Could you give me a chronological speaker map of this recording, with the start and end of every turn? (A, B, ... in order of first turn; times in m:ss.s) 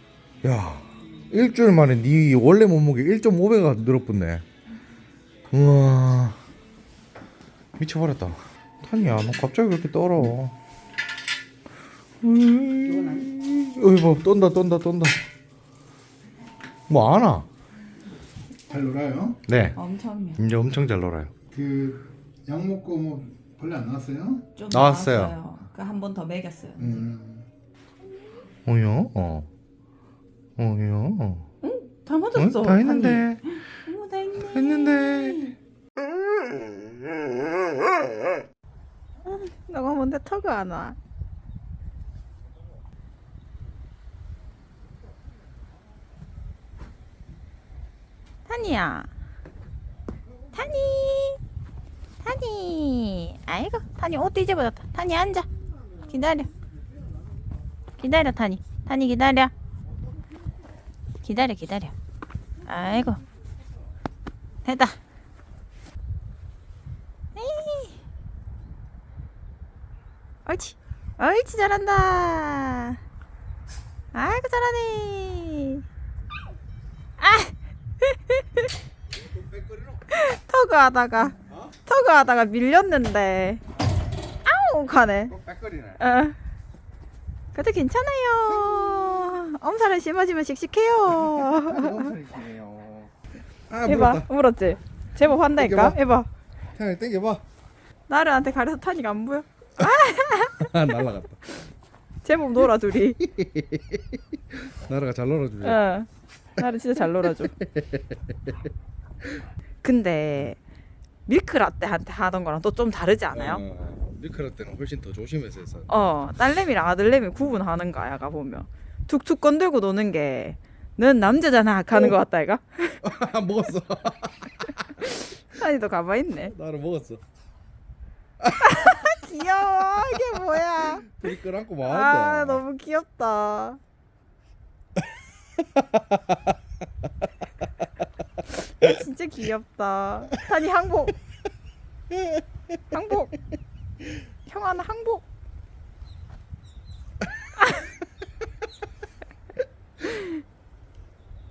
0:00.4-0:04.4 A
0:05.5-0:06.4 A
0:07.8-0:10.5 A
0:12.2-0:15.2 A
0:13.0-0:13.3 B
0:16.9-0:17.5 A
0:18.7-0:19.4 C
0:19.3-0:19.8 A
0:19.8-0:20.4 B
0:20.4-0:21.4 A
0:21.5-0:24.4 C
0:24.6-0:27.0 B
0:24.7-0:25.4 A
0:26.8-0:27.4 C
0:28.6-0:29.5 A
0:30.6-0:31.4 A
0:31.6-0:35.6 B
0:32.3-0:33.4 A
0:34.4-0:35.5 A
0:39.2-0:41.0 B
0:48.4-0:49.1 B
0:50.5-0:51.4 B
0:52.2-0:55.5 B
0:56.1-0:56.5 B
0:58.0-0:59.5 B
1:01.2-1:01.9 B
1:02.6-1:03.2 B
1:04.6-1:05.0 B
1:07.4-1:08.0 B
1:10.4-1:13.0 B
1:14.1-1:15.8 B
1:17.2-1:18.6 B
1:19.3-1:19.9 A
1:20.1-1:23.6 B
1:24.4-1:25.3 B
1:25.3-1:26.0 A
1:26.0-1:26.4 B
1:27.5-1:32.1 B
1:28.4-1:29.4 A
1:31.1-1:33.1 A
1:33.7-1:34.2 A
1:33.8-1:36.3 B
1:35.5-1:36.0 A
1:36.7-1:37.4 A
1:38.1-1:40.9 B
1:39.8-1:41.6 A
1:42.2-1:43.2 B
1:43.2-1:45.8 A
1:45.6-1:47.5 B
1:47.2-1:48.5 A
1:49.8-1:50.6 B
1:51.2-1:53.6 B
1:53.3-1:55.9 A
1:55.9-2:03.0 B
2:03.0-2:05.1 A
2:05.5-2:06.5 B
2:06.5-2:07.2 A
2:08.4-2:09.0 A
2:08.6-2:11.1 B
2:10.1-2:12.6 A
2:11.8-2:13.8 B
2:15.6-2:16.4 A
2:18.8-2:21.2 B
2:22.9-2:23.3 B
2:24.4-2:25.2 B